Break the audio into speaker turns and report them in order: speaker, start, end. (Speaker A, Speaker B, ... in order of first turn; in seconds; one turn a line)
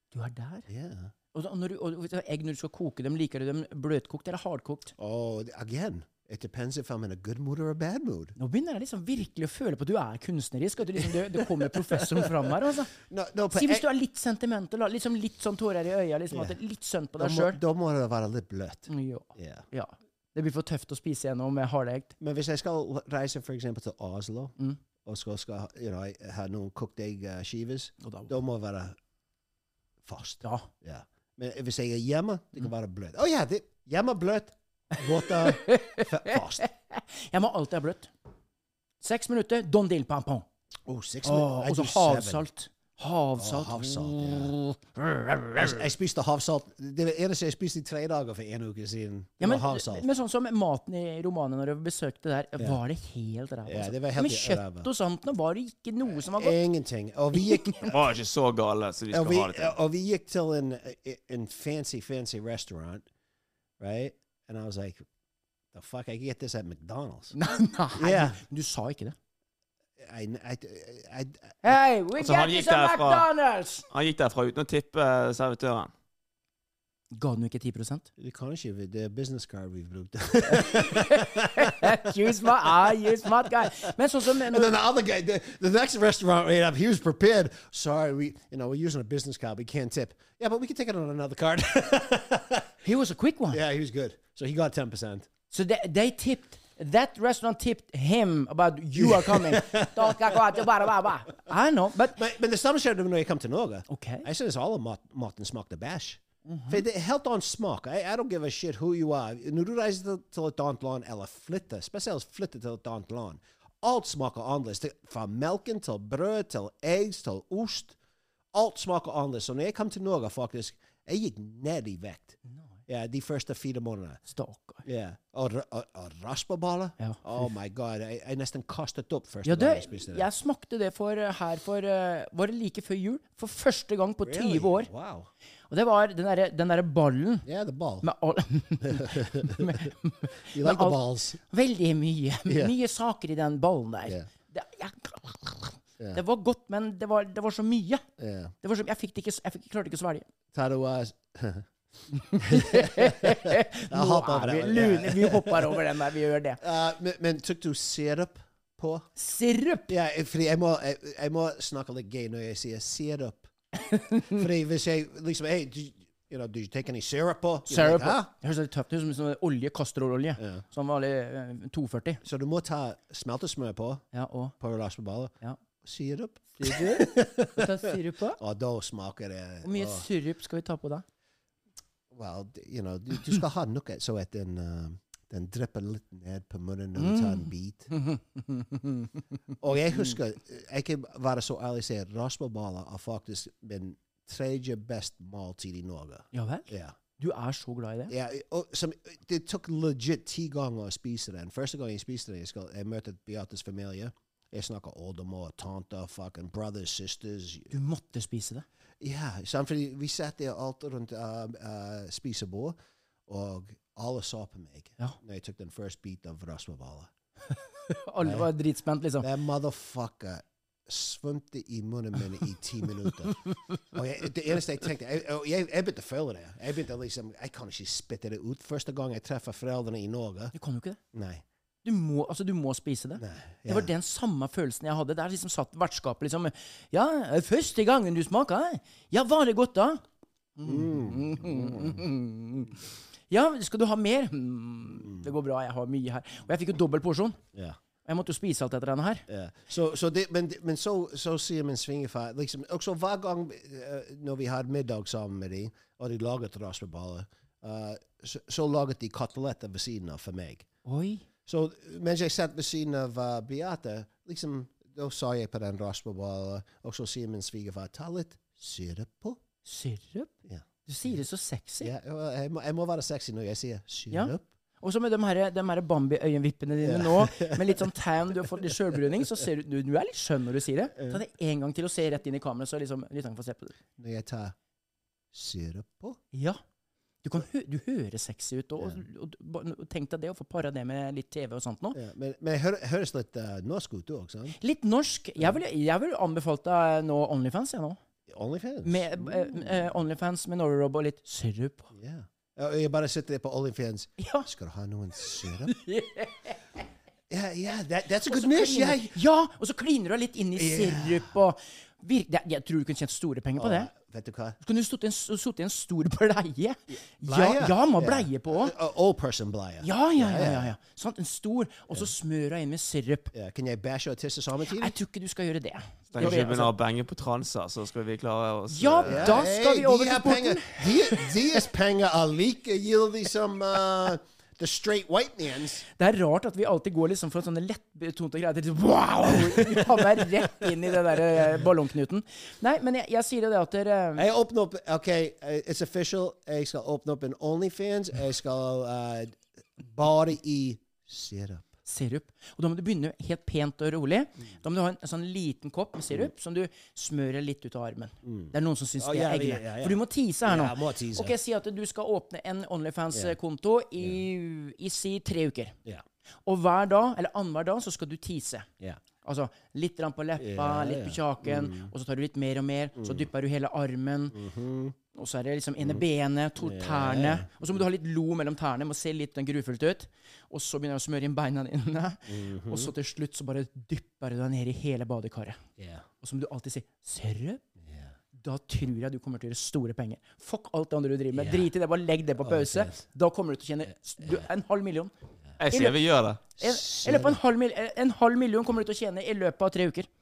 Speaker A: 0.1-0.7
Speaker B: 0.7-1.1
Speaker A: 1.3-4.9
Speaker B: 5.0-8.3
Speaker A: 8.4-12.9
Speaker B: 11.0-13.8
Speaker A: 13.5-17.6
Speaker B: 16.3-16.6
Speaker B: 17.2-19.6
Speaker A: 18.9-22.1
Speaker B: 22.2-28.9
Speaker A: 28.0-28.3
Speaker B: 30.0-36.6
Speaker A: 30.4-30.7
Speaker A: 35.2-38.1
Speaker A: 39.0-40.4
Speaker B: 40.9-42.5
Speaker A: 41.2-45.9
Speaker B: 43.4-44.5
Speaker B: 45.5-50.1
Speaker A: 49.4-56.6
Speaker B: 53.6-54.9
Speaker B: 56.1-58.0
Speaker A: 57.3-57.9
Speaker C: 57.9-59.7
Speaker B: 59.1-63.0
Speaker B: 63.8-65.0
Speaker B: 65.7-67.3
Speaker A: 67.3-69.1
Speaker B: 68.0-68.4
Speaker B: 70.0-71.5
Speaker A: 71.6-73.8
Speaker C: 72.2-73.3
Speaker C: 73.9-75.9
Speaker A: 77.1-78.1
Speaker B: 78.2-83.2
Speaker A: 80.5-84.7
Speaker B: 84.3-92.7
Speaker A: 92.8-93.6
Speaker B: 93.5-95.3
Speaker A: 95.5-102.2
Speaker B: 98.9-100.8
Speaker B: 102.1-118.0
Speaker A: 103.9-104.3
Speaker A: 106.5-106.8
Speaker B: 118.5-124.2
Speaker A: 122.5-122.7
Speaker A: 124.3-124.8
Speaker B: 124.8-130.3
Speaker A: 129.4-134.9
Speaker B: 134.2-135.3
Speaker A: 135.7-137.4
Speaker B: 137.4-138.1
Speaker A: 138.0-148.0
Speaker B: 138.8-139.9
Speaker B: 140.5-141.4
Speaker B: 142.5-142.7
Speaker B: 148.2-148.5
Speaker A: 148.6-150.2
Speaker B: 150.5-151.7
Speaker B: 152.3-155.8
Speaker A: 152.3-156.6
Speaker B: 156.6-159.1
Speaker A: 159.2-159.9
Speaker B: 159.9-163.5
Speaker A: 163.8-164.4
Speaker B: 164.3-168.3
Speaker A: 167.7-172.2
Speaker B: 170.4-170.6
Speaker B: 172.2-174.0
Speaker A: 174.1-174.5
Speaker B: 174.6-180.1
Speaker A: 176.6-178.4
Speaker A: 179.6-181.0
Speaker B: 182.1-187.9
Speaker A: 186.9-189.2
Speaker B: 189.6-196.9
Speaker A: 196.3-198.1
Speaker B: 198.1-207.8
Speaker A: 207.7-208.6
Speaker B: 209.0-212.8
Speaker B: 213.3-217.1
Speaker A: 217.5-219.3
Speaker B: 218.2-218.5
Speaker B: 219.2-230.5
Speaker A: 230.5-231.0
Speaker B: 231.1-231.4
Speaker A: 231.8-240.0
Speaker B: 233.2-233.9
Speaker A: 240.6-247.4
Speaker B: 240.6-242.0
Speaker B: 245.0-245.3
Speaker A: 248.0-249.2
Speaker B: 249.3-260.6
Speaker A: 260.8-261.2
Speaker B: 261.4-269.4
Speaker A: 269.6-270.3
Speaker A: 270.9-271.9
Speaker B: 271.8-274.5
Speaker A: 274.1-283.7
Speaker B: 276.8-277.9
Speaker B: 278.4-279.0
Speaker B: 281.0-281.2
Speaker B: 284.0-284.5
Speaker B: 285.3-286.2
Speaker A: 286.3-286.6
Speaker A: 287.2-292.0
Speaker B: 291.9-294.6
Speaker A: 294.6-298.0
Speaker B: 298.3-299.9
Speaker A: 298.8-301.9
Speaker B: 301.9-305.7
Speaker A: 304.2-304.5
Speaker A: 305.7-306.6
Speaker B: 307.3-309.2
Speaker A: 308.3-313.9
Speaker B: 310.6-311.3
Speaker B: 313.6-314.6
Speaker A: 314.6-318.7
Speaker B: 316.9-320.7
Speaker A: 319.8-323.3
Speaker B: 323.3-325.0
Speaker A: 324.8-326.7
Speaker C: 326.1-329.4
Speaker A: 328.7-331.6
Speaker B: 329.1-335.8
Speaker A: 336.0-344.2
Speaker B: 339.5-339.9
Speaker B: 344.1-351.7
Speaker A: 351.9-365.7
Speaker B: 358.2-361.4
Speaker A: 366.4-368.7
Speaker A: 369.2-374.4
Speaker B: 370.4-371.9
Speaker B: 373.0-373.3
Speaker B: 374.3-374.9
Speaker A: 375.1-385.6
Speaker B: 376.6-377.8
Speaker B: 382.3-382.9
Speaker B: 385.8-386.1
Speaker A: 386.2-387.6
Speaker B: 387.8-388.1
Speaker A: 388.3-395.1
Speaker B: 391.3-391.7
Speaker B: 392.4-393.0
Speaker B: 394.2-394.5
Speaker C: 395.6-396.4
Speaker A: 395.7-400.1
Speaker B: 396.6-397.4